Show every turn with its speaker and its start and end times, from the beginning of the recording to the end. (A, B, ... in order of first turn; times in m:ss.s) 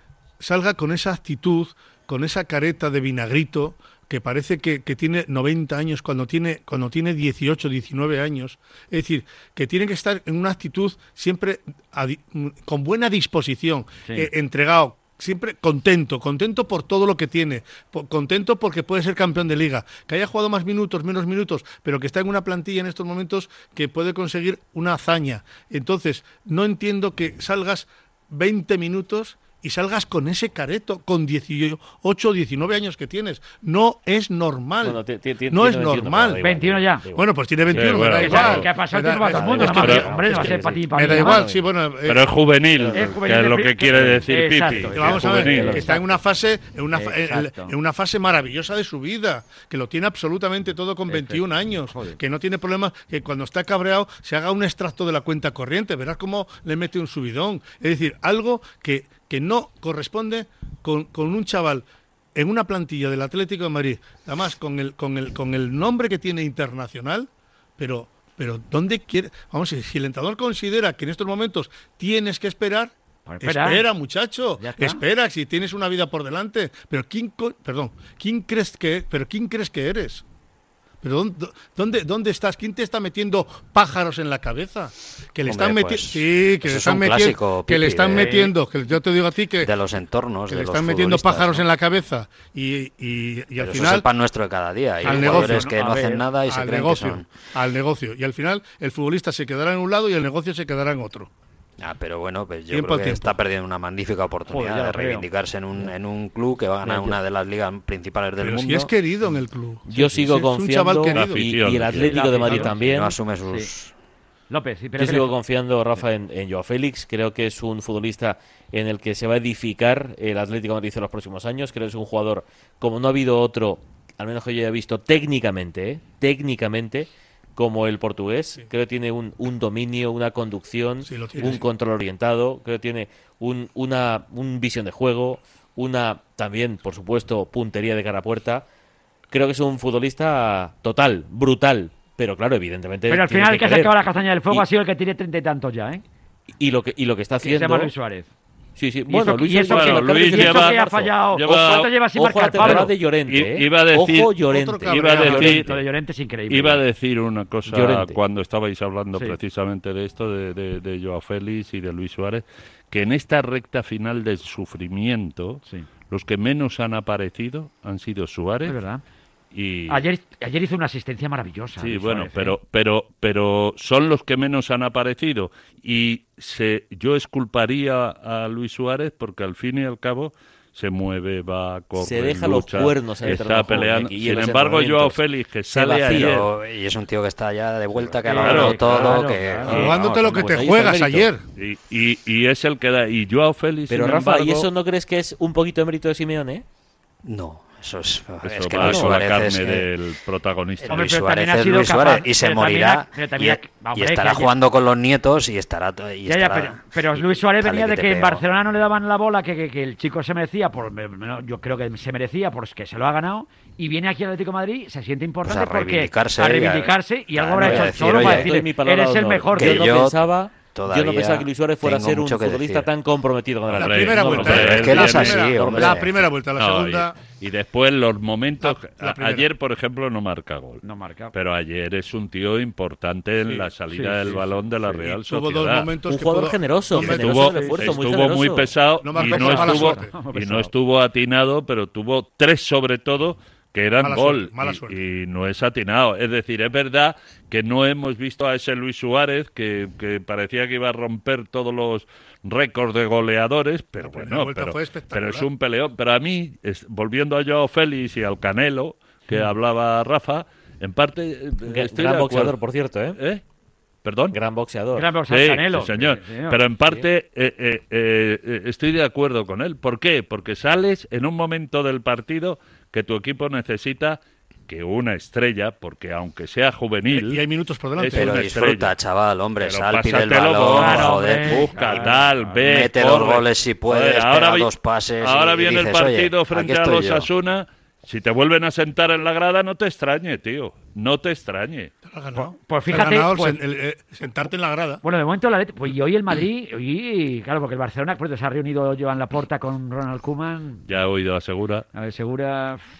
0:00.4-0:36.4 A
0:34.8-0:38.6 B
0:36.4-0:37.0 C
0:37.1-0:42.2 A
0:37.7-0:38.7 D
0:38.2-0:41.4 C
0:39.3-0:41.6 B
0:39.7-0:40.1 D
0:42.0-0:45.8 D
0:42.8-0:43.2 B
0:42.9-0:46.0 C
0:43.9-0:46.0 B
0:44.9-1:20.2 A
0:46.9-0:47.7 C
0:51.9-0:52.2 C
1:13.3-1:13.8 C
1:14.6-1:15.0 C
1:21.0-1:29.7 A
1:25.4-1:28.4 E
1:28.2-1:28.5 C
1:29.6-1:31.6 E
1:30.5-1:34.1 A
1:33.6-1:37.3 E
1:35.0-1:35.7 A
1:35.0-1:36.2 C
1:36.4-1:41.3 A
1:41.8-1:48.9 E
1:42.7-1:43.4 A
1:44.5-1:45.3 C
1:46.8-1:47.2 B
1:48.4-1:51.5 A
1:49.9-1:53.2 B
1:51.1-1:52.2 D
1:52.0-1:52.7 C
1:52.7-1:53.9 E
1:54.5-1:55.3 C
1:55.0-2:18.6 B
2:11.0-2:11.6 A
2:19.3-2:23.9 B
2:23.1-2:26.0 C
2:26.6-2:27.9 B
2:27.4-2:28.3 C
2:28.8-2:35.8 B
2:29.1-2:32.9 C
2:29.6-2:30.8 D
2:31.3-2:31.9 D
2:32.5-2:34.3 D
2:34.5-2:35.6 A
2:34.8-2:35.7 D
2:35.1-2:36.8 C
2:36.5-2:48.8 D
2:37.7-2:38.2 B
2:48.6-2:49.0 C
2:49.5-2:50.0 D
2:49.9-2:52.6 C
2:51.8-3:06.5 D
3:02.0-3:06.4 B
3:06.1-3:10.6 E
3:08.2-3:09.8 C
3:08.4-3:09.1 D
3:08.8-3:09.2 B
3:09.6-3:11.4 A
3:09.8-3:11.3 B
3:11.6-3:14.7 D
3:13.9-3:16.6 B
3:17.2-3:19.9 E
3:18.4-3:21.1 D
3:18.8-3:19.1 B
3:20.8-3:28.4 E
3:20.9-3:24.5 C
3:26.2-3:39.9 C
3:35.4-3:38.5 E
3:37.6-3:46.0 B
3:39.6-3:42.9 E
3:43.7-3:45.4 D
3:43.7-3:47.2 A
3:44.4-3:46.3 E
3:46.6-3:55.9 D
3:48.6-3:49.5 A
3:50.8-3:51.3 C
3:53.9-3:54.4 C
3:54.9-3:57.5 A
3:56.0-3:58.7 B
3:56.9-4:22.6 D
3:57.4-3:57.8 C
3:59.0-4:00.1 A
3:59.2-4:00.7 C
4:04.0-4:05.0 A
4:14.0-4:15.5 A
4:21.6-4:23.2 B
4:23.2-4:23.4 D
4:24.0-4:24.4 D
4:24.3-4:25.1 B
4:24.9-4:26.6 C
4:25.3-4:37.4 D
4:37.1-4:38.4 A
4:38.0-4:38.9 D
4:38.1-4:47.3 E
4:39.6-4:51.9 D
4:40.7-4:42.6 C
4:52.1-4:55.0 A
4:52.3-4:53.6 C
4:55.0-5:00.8 C
5:00.9-5:01.9 D
5:01.9-5:02.8 C